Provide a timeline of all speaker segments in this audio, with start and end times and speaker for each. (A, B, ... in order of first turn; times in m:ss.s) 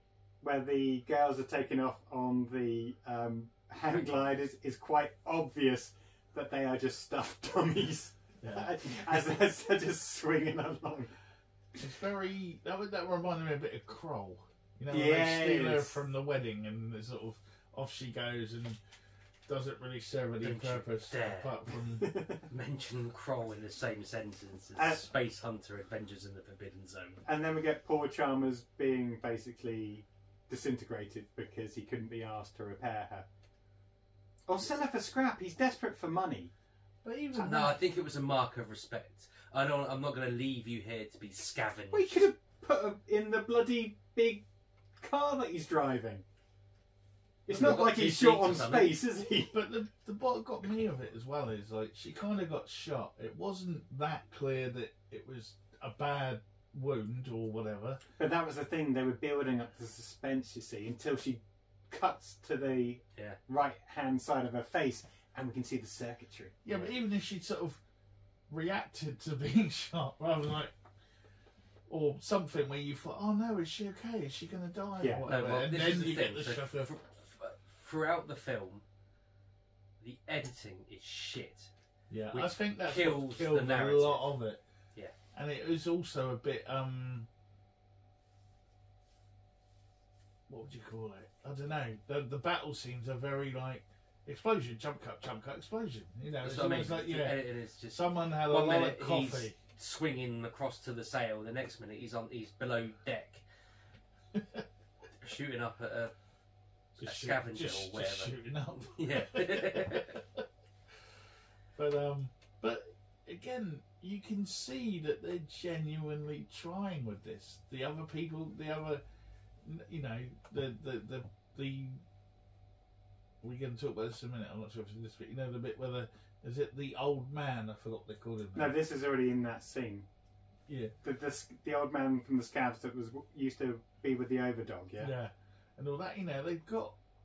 0:00.4-0:11.1 A
0:08.4-0:09.2 B
0:11.8-0:18.8 B
0:14.9-0:16.0 A
0:19.5-0:22.1 B
0:20.4-0:21.6 C
0:22.0-0:22.4 A
0:22.5-0:27.2 C
0:24.8-0:25.0 A
0:27.3-0:33.3 A
0:34.5-0:36.5 A
0:37.0-0:37.8 B
0:37.4-0:42.3 C
0:41.9-0:44.5 A
0:45.0-0:46.2 A
0:47.5-0:47.9 B
0:47.5-0:49.0 C
0:47.5-0:49.5 A
0:49.3-0:58.0 B
0:58.2-1:06.6 A
1:06.6-1:07.8 B
1:08.5-1:10.7 B
1:11.9-1:16.9 B
1:15.0-1:15.3 A
1:15.2-1:18.8 C
1:20.0-1:21.7 C
1:22.1-1:24.6 B
1:22.3-1:24.3 C
1:25.3-1:27.3 B
1:30.5-1:39.6 B
1:36.4-1:43.4 C
1:44.3-1:44.6 B
1:45.2-1:46.1 C
1:47.0-1:50.2 C
1:47.0-1:51.0 B
1:51.8-1:59.0 B
1:59.6-2:02.0 B
2:03.4-2:08.8 B
2:08.6-2:10.1 A
2:10.7-2:10.9 B
2:11.0-2:15.1 A
2:15.0-2:17.0 B